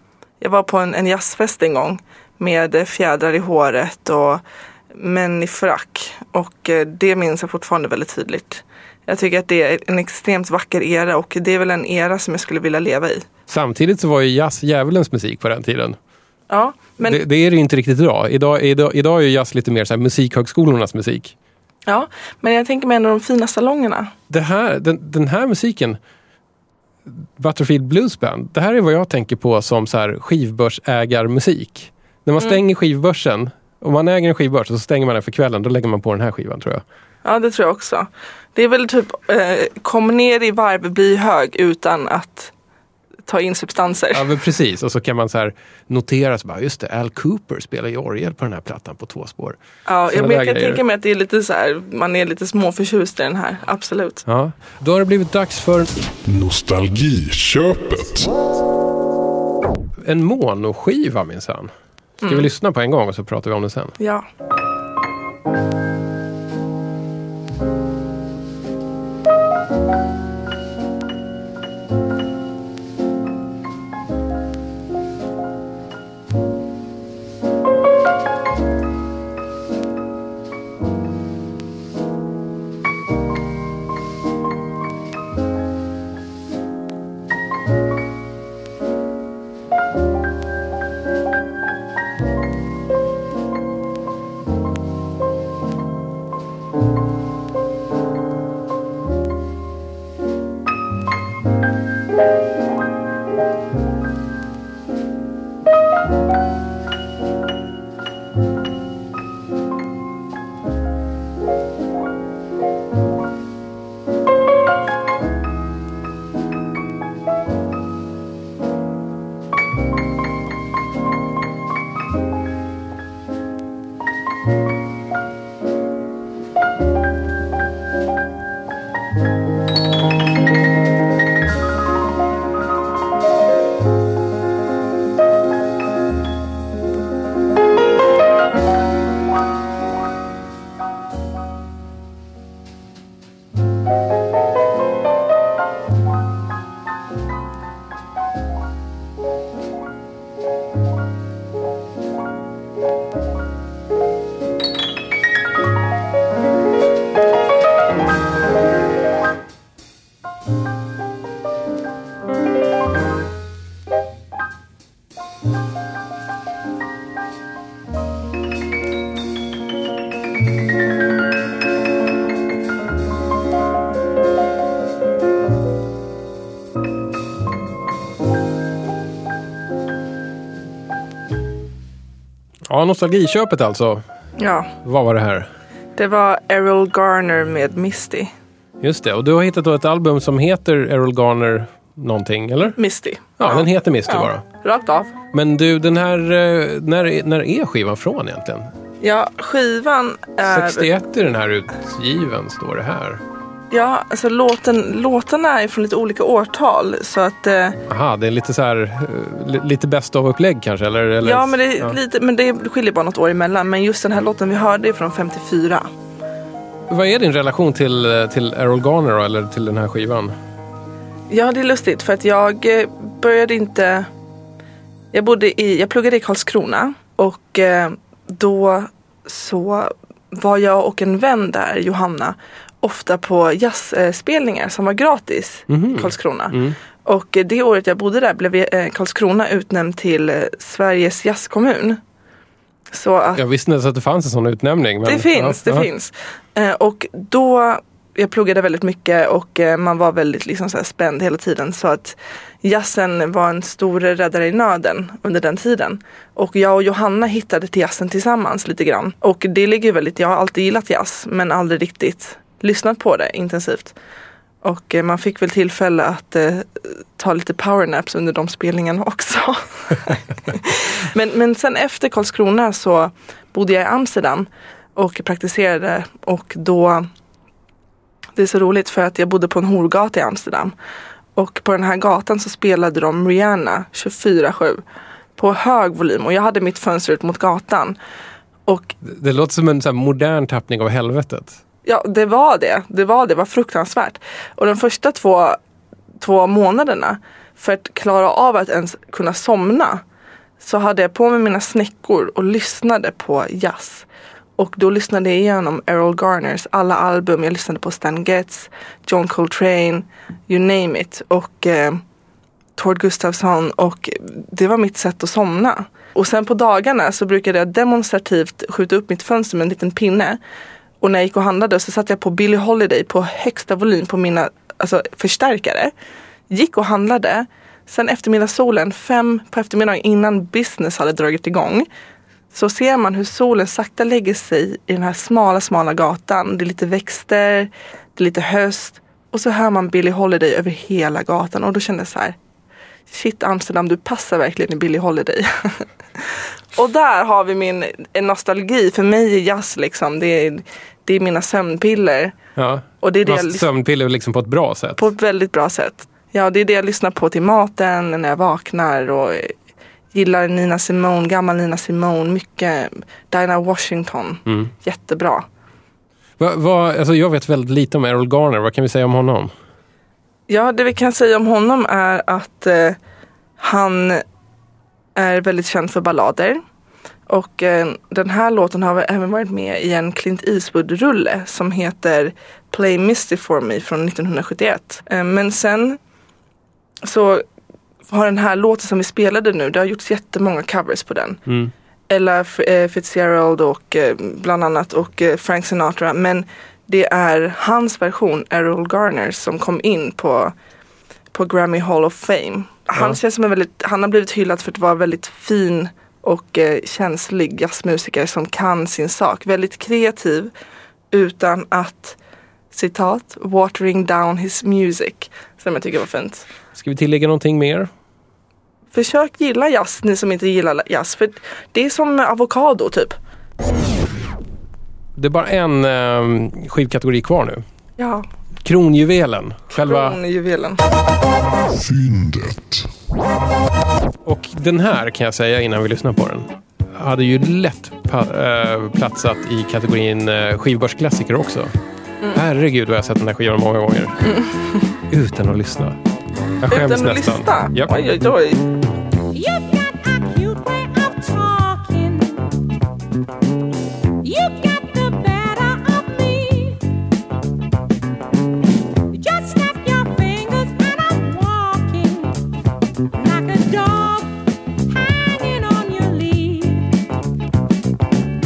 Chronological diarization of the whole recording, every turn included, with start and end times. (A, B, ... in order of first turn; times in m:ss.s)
0:00.4-0:04.4 A
0:04.9-0:13.3 A
0:13.5-0:16.0 B
0:16.5-0:17.2 A
0:17.1-0:21.4 B
0:21.9-0:24.1 A
0:24.3-0:26.0 B
0:27.1-0:36.8 B
0:37.2-0:42.5 A
0:43.3-0:44.3 A
0:44.1-0:49.6 B
0:49.9-0:54.2 A
0:50.1-0:50.8 B
0:54.3-0:55.9 B
0:56.2-0:58.3 C
1:00.0-1:01.7 B
1:02.2-1:02.5 A
1:02.3-1:04.0 B
1:04.0-1:04.3 A
3:02.7-3:04.0 B
3:04.4-3:04.7 A
3:04.8-3:05.5 B
3:06.0-3:08.3 A
3:08.8-3:12.8 B
3:12.8-3:15.1 A
3:13.4-3:14.4 B
3:15.3-3:18.7 B
3:19.0-3:20.9 A
3:20.4-3:23.2 B
3:23.7-3:27.8 A
3:27.9-3:32.0 B
3:31.2-3:35.9 A
3:36.9-3:40.4 B
3:41.3-3:44.1 A
3:45.1-4:02.0 A
3:55.7-3:56.8 B
4:02.9-4:03.4 A
4:03.4-4:05.9 B
4:05.0-4:24.0 A
4:24.6-4:37.1 A
4:38.4-4:40.8 A
4:41.4-4:44.8 A
4:45.4-4:48.0 A
4:48.7-4:49.0 A
4:49.0-4:51.6 B
4:51.9-4:55.6 A
4:56.2-5:00.0 A
5:00.6-5:04.1 A
5:04.6-5:12.0 A
5:12.8-5:20.4 A
5:21.0-5:25.9 A
5:26.5-5:31.9 A
5:32.5-5:42.4 A
5:43.1-5:52.4 A
5:52.6-5:55.0 B
5:53.0-5:53.7 A
5:55.0-5:59.5 A
6:00.1-6:05.5 A
6:04.5-6:04.7 B
6:06.4-6:09.5 B
6:10.5-6:13.0 A
6:13.6-6:14.2 A
6:15.2-6:16.6 A
6:17.3-6:26.0 A
6:27.0-6:27.4 A
6:28.1-6:31.4 A
6:31.5-6:31.7 B
6:32.1-6:40.5 A
6:41.3-6:50.5 A
6:51.1-6:52.2 A
6:52.7-6:56.5 A
6:56.8-6:57.9 B
6:58.9-7:03.2 A
7:05.2-7:07.6 B
7:08.0-7:08.3 A
7:08.6-7:10.2 B
7:09.7-7:10.8 A
7:11.7-7:12.9 C
7:14.2-7:21.7 B
7:22.4-7:24.2 B
7:24.2-7:24.8 A
7:25.1-7:26.0 B
7:26.6-7:27.9 B
7:26.7-7:28.6 A
7:29.3-7:32.5 D
7:34.2-7:36.8 D
7:39.1-7:42.4 D
7:43.1-7:46.9 D